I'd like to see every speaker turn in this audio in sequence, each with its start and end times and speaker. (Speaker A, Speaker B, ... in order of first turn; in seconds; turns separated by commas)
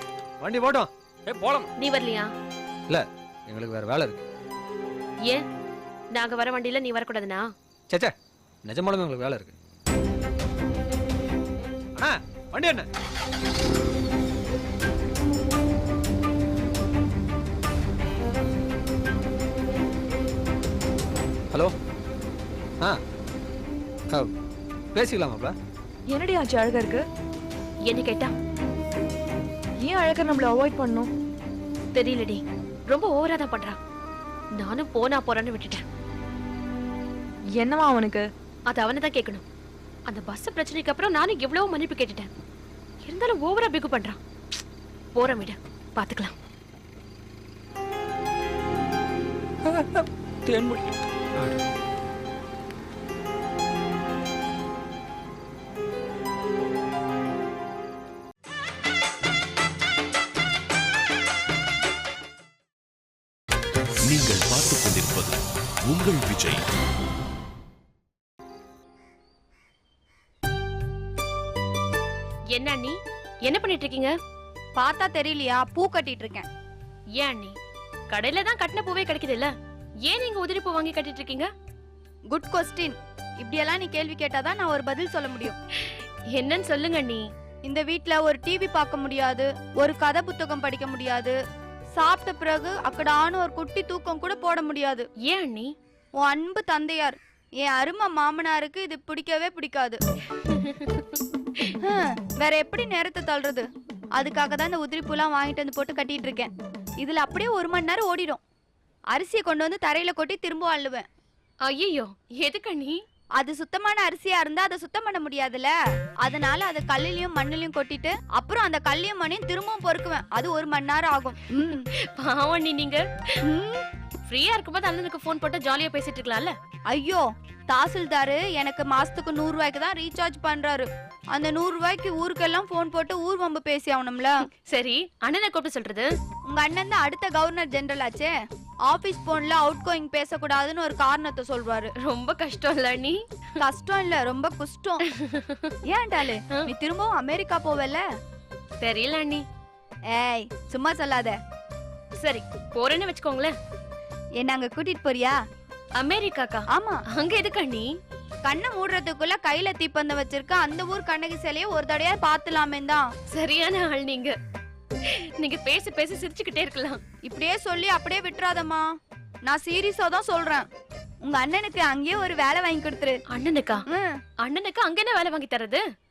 Speaker A: 0.4-0.9, Speaker B: 1.3-1.7, Speaker C: 1.8-2.3, Speaker A: 2.9-4.2, Speaker C: 6.1-7.5, Speaker A: 8.6-9.5, Speaker A: 12.0-12.9, Speaker A: 24.9-25.6, Speaker D: 26.1-27.0, Speaker C: 27.9-28.3, Speaker D: 29.8-31.1, Speaker C: 31.9-33.8, Speaker C: 34.5-35.8, Speaker D: 37.6-38.2, Speaker C: 38.7-39.4, Speaker C: 40.1-42.3, Speaker C: 43.0-44.2, Speaker C: 45.1-46.3, Speaker B: 49.7-51.6, Speaker E: 64.0-66.6, Speaker C: 72.5-72.9, Speaker C: 73.5-74.1, Speaker F: 74.8-76.5, Speaker C: 77.2-77.5, Speaker C: 78.1-79.5, Speaker C: 80.1-81.5, Speaker F: 82.3-85.5, Speaker C: 85.8-87.2, Speaker F: 87.7-91.3, Speaker F: 92.0-95.1, Speaker C: 95.2-95.7, Speaker F: 96.2-100.0, Speaker C: 100.5-101.0, Speaker F: 101.7-108.4, Speaker F: 109.1-111.0, Speaker C: 111.7-113.0, Speaker F: 113.4-121.9, Speaker C: 122.2-123.3, Speaker F: 123.4-123.8, Speaker C: 124.3-126.5, Speaker F: 126.9-134.4, Speaker C: 134.6-136.1, Speaker F: 136.5-138.3, Speaker F: 138.8-141.9, Speaker C: 142.0-143.2, Speaker F: 143.6-145.0, Speaker C: 145.1-145.7, Speaker F: 145.9-148.0, Speaker C: 148.8-149.4, Speaker F: 150.1-151.3, Speaker C: 152.2-153.5, Speaker F: 154.4-155.3, Speaker C: 156.0-156.6, Speaker F: 156.7-157.0, Speaker C: 157.1-157.9, Speaker F: 158.4-163.1, Speaker C: 163.3-164.3, Speaker C: 165.0-167.0, Speaker F: 167.2-168.9, Speaker F: 169.4-170.7, Speaker F: 171.2-173.2, Speaker C: 173.3-173.8, Speaker F: 173.9-174.2, Speaker C: 174.4-175.8